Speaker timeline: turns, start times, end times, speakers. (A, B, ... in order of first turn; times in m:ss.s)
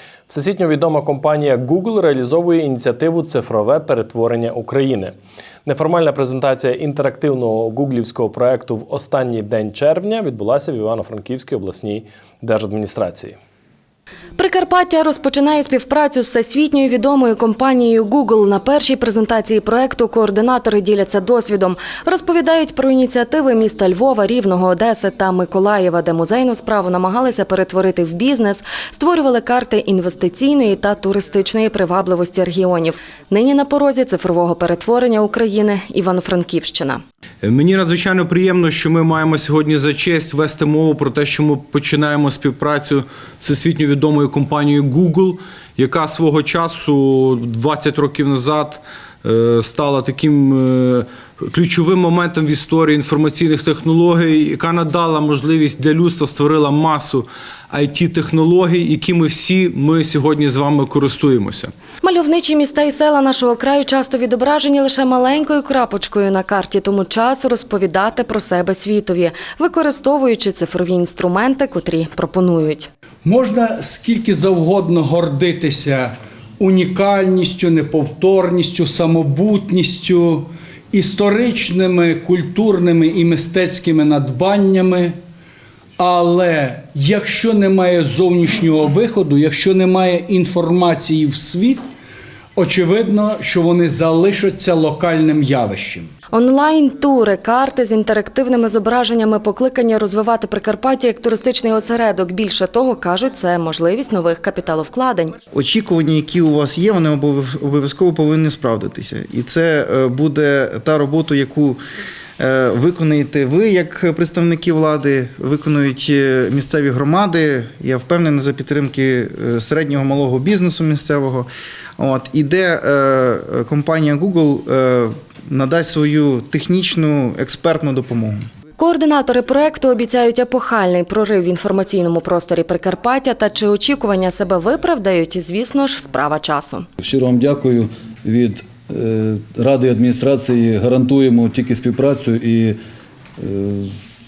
0:00.3-0:05.1 A
0:05.6-0:13.4 A
0:14.4-0:37.0 B
0:37.4-1:01.7 C
1:02.0-1:12.9 B
1:13.2-1:25.2 D
1:26.0-1:31.9 D
1:32.6-1:36.1 D
1:36.3-1:45.4 B
1:45.5-1:51.8 E
1:52.4-2:08.4 E
2:08.8-2:16.9 B
2:17.0-2:22.8 F
2:23.4-2:23.9 F